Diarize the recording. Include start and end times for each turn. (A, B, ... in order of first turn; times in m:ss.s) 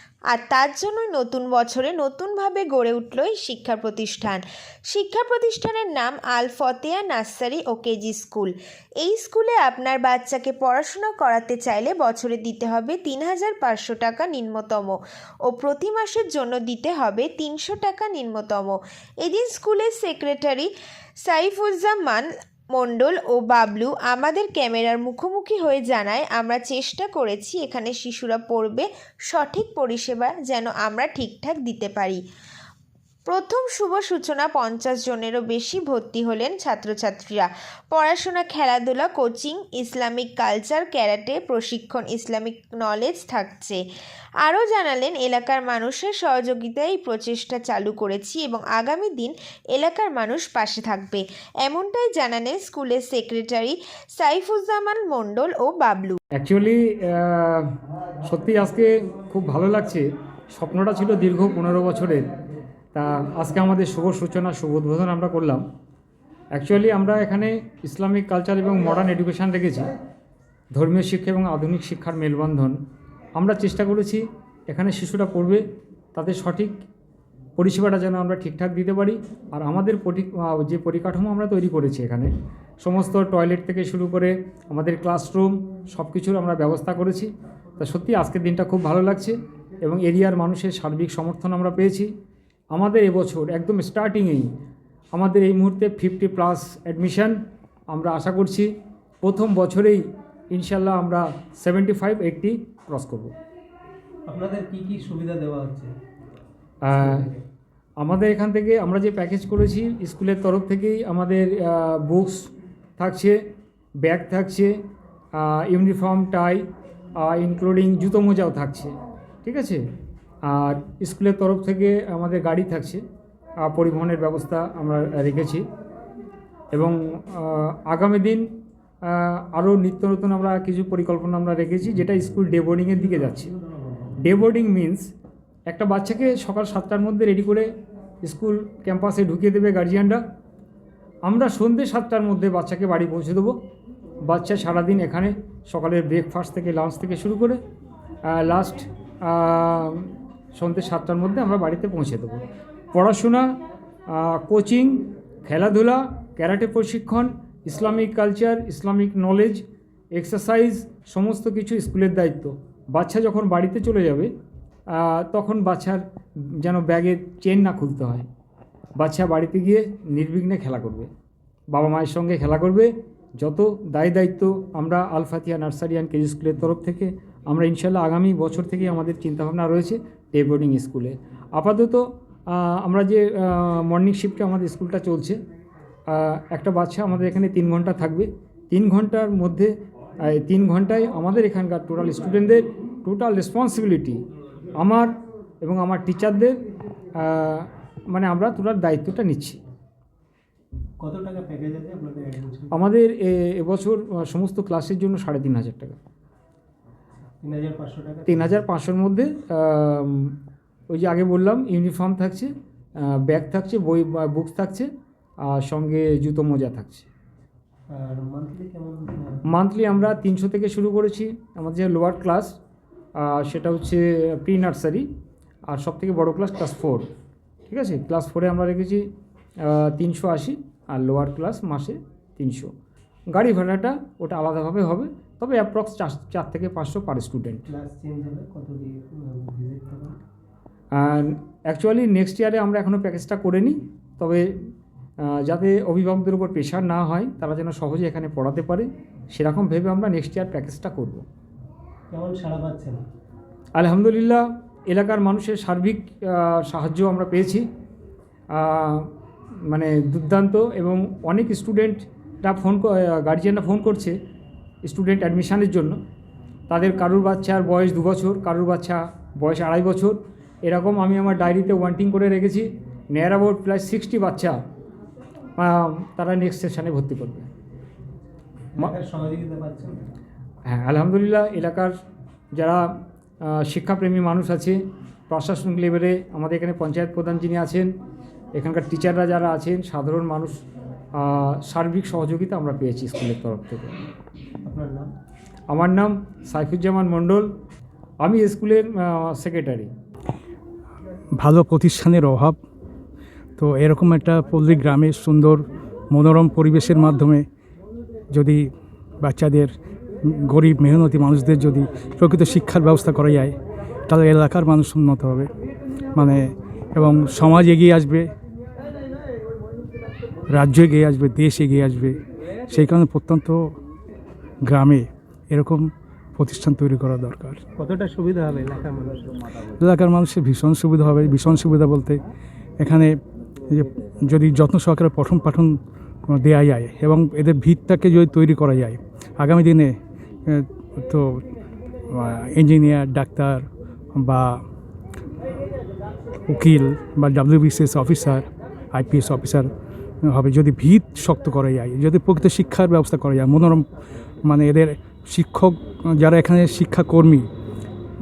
0:00.3-0:20.7 A
0:21.2-0:32.2 A
0:33.3-0:43.8 A
0:44.4-0:56.2 A
0:56.4-0:57.7 B
0:58.3-1:02.3 B
1:02.9-1:05.6 B
1:06.5-1:09.9 B
1:10.7-1:12.8 B
1:13.4-1:15.6 B
1:16.2-1:16.8 B
1:17.6-1:22.3 B
1:22.8-1:32.1 B
1:32.7-1:34.5 B
1:35.1-1:37.4 B
1:37.9-1:38.7 B
1:39.2-1:43.3 B
1:44.3-1:45.9 C
1:46.8-1:47.3 B
1:47.0-1:47.3 C
1:48.0-1:53.4 B
1:54.0-1:54.7 B
1:55.4-1:56.6 B
1:57.2-1:58.9 B
1:59.4-1:59.8 B
2:00.5-2:03.0 B
2:03.6-2:05.6 B
2:06.7-2:08.5 B
2:09.1-2:13.5 B
2:14.2-2:15.1 B
2:15.7-2:17.7 B
2:18.2-2:20.2 B
2:21.2-2:23.5 B
2:24.3-2:27.6 B
2:28.3-2:33.6 B
2:34.1-2:39.6 B
2:40.1-2:44.3 B
2:44.9-2:46.0 B
2:46.6-2:48.3 B
2:49.0-2:51.1 B
2:51.7-3:05.4 B
3:06.1-3:09.7 B
3:10.2-3:14.2 B
3:14.8-3:16.6 B
3:17.2-3:19.6 B
3:21.0-3:22.8 C
3:22.7-3:26.0 B
3:27.4-3:28.5 C
3:28.3-3:30.4 B
3:30.9-3:34.9 B
3:35.5-3:37.1 B
3:37.9-3:39.4 C
3:39.5-3:42.6 B
3:43.2-3:45.1 B
3:45.7-3:47.1 B
3:47.7-3:49.1 B
3:49.6-3:52.7 B
3:53.3-3:57.7 B
3:57.7-4:00.2 C
4:00.9-4:04.5 B
4:05.2-4:11.2 B
4:12.1-4:13.0 C
4:13.8-4:17.6 B
4:18.5-4:19.1 B
4:19.7-4:24.2 B
4:24.8-4:26.0 B
4:26.7-4:34.6 B
4:35.6-4:37.5 B
4:38.7-4:40.1 C
4:40.7-4:41.9 B
4:42.6-4:42.9 B
4:43.5-4:44.8 B
4:45.3-4:47.9 B
4:48.6-4:50.6 B
4:51.2-4:53.9 B
4:54.6-4:55.1 C
4:55.7-4:57.5 B
4:58.2-4:59.9 B
5:01.4-5:02.6 D
5:03.6-5:07.5 D
5:08.3-5:08.6 D
5:09.2-5:09.7 D
5:10.2-5:13.6 D
5:14.1-5:15.5 D
5:16.2-5:18.3 D
5:20.5-5:23.8 D
5:24.6-5:27.6 D
5:27.8-5:29.4 C
5:29.7-5:32.2 D
5:32.8-5:33.1 D
5:33.7-5:35.8 D
5:36.3-5:39.9 D
5:40.5-5:41.4 D
5:42.1-5:43.6 D
5:44.2-5:44.6 D
5:46.5-5:49.7 D
5:50.2-5:53.9 D
5:54.4-5:57.5 D